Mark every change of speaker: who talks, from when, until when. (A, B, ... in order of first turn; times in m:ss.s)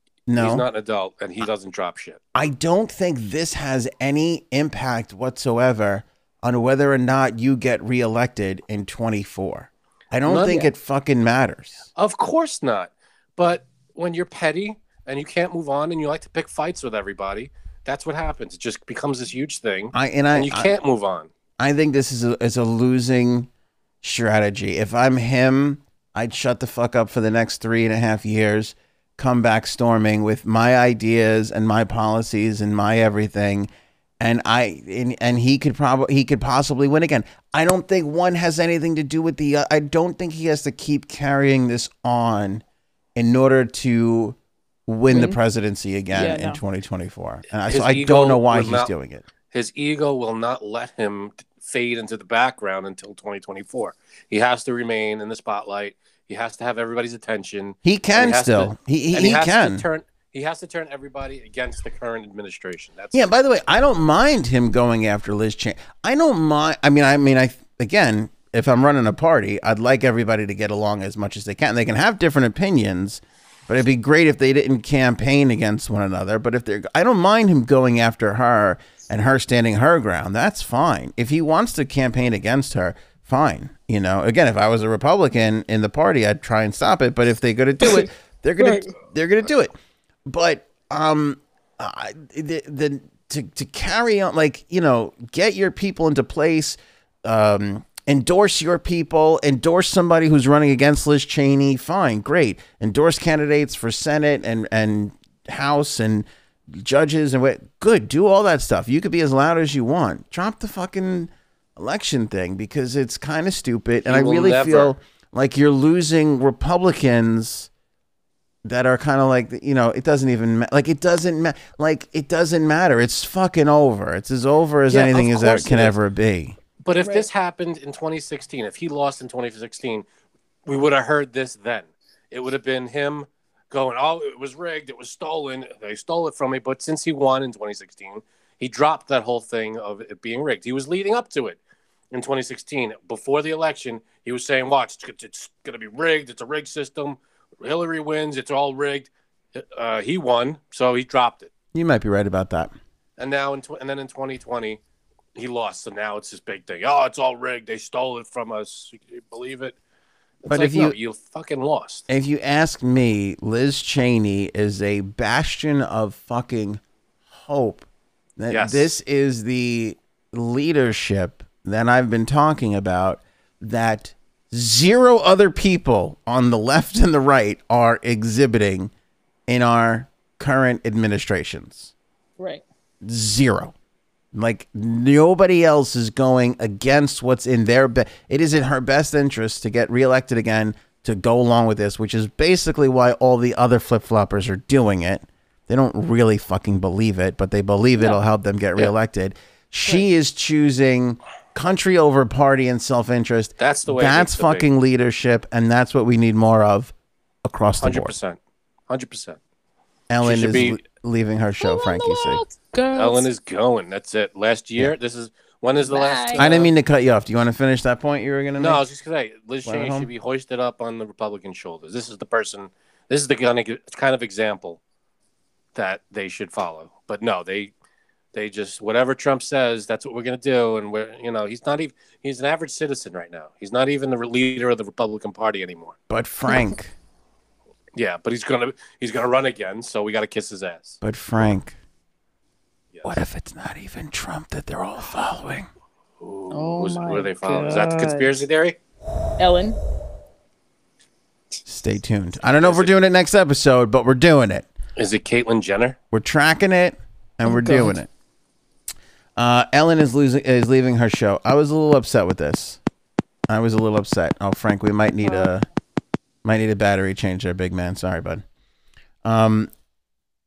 0:00.3-0:00.7 A
0:00.4-0:02.2 B
0:02.3-0:11.9 A
0:10.3-0:10.6 B
0:12.0-0:21.3 B
0:19.9-0:20.7 A
0:21.6-0:23.5 A
0:24.0-0:42.6 A
0:43.2-0:49.2 A
0:45.1-0:45.4 C
0:46.1-0:46.6 C
0:47.7-0:48.9 B
0:49.5-1:03.3 B
0:57.8-0:59.9 A
1:03.1-1:29.7 A
1:28.6-1:28.9 C
1:30.3-1:57.7 A
1:54.0-1:54.9 B
1:58.6-2:06.6 A
2:04.9-2:06.0 B
2:06.8-2:10.1 B
2:07.0-2:07.3 C
2:10.7-2:21.6 B
2:22.1-2:31.5 B
2:31.7-2:32.7 A
2:33.2-2:34.8 B
2:35.4-2:39.8 B
2:40.4-2:42.0 B
2:40.5-2:41.0 A
2:42.1-2:46.8 A
2:47.3-2:47.9 A
2:48.4-2:58.9 A
2:48.5-2:48.9 B
2:59.5-3:01.9 A
3:03.0-3:03.7 A
3:04.3-3:26.9 A
3:23.6-3:24.7 B
3:27.4-3:28.1 A
3:27.8-3:29.4 B
3:30.1-3:32.4 A
3:30.2-3:30.8 B
3:31.6-3:33.3 C
3:33.0-3:36.7 B
3:35.8-3:36.5 C
3:36.4-3:38.8 A
3:38.6-3:44.8 B
3:39.6-3:40.1 A
3:45.8-3:47.7 B
3:48.3-3:56.0 B
3:56.1-3:56.9 A
3:58.0-4:01.5 B
4:01.0-4:01.8 A
4:02.9-4:03.2 B
4:03.0-4:05.7 A
4:06.2-4:08.8 B
4:06.5-4:08.4 C
4:09.4-4:09.8 C
4:11.7-4:14.7 A
4:12.6-4:12.9 B
4:15.0-4:16.0 B
4:16.1-4:18.1 A
4:17.4-4:18.0 C
4:19.4-4:22.8 A
4:23.5-4:25.7 A
4:26.4-4:28.4 A
4:29.2-4:29.7 A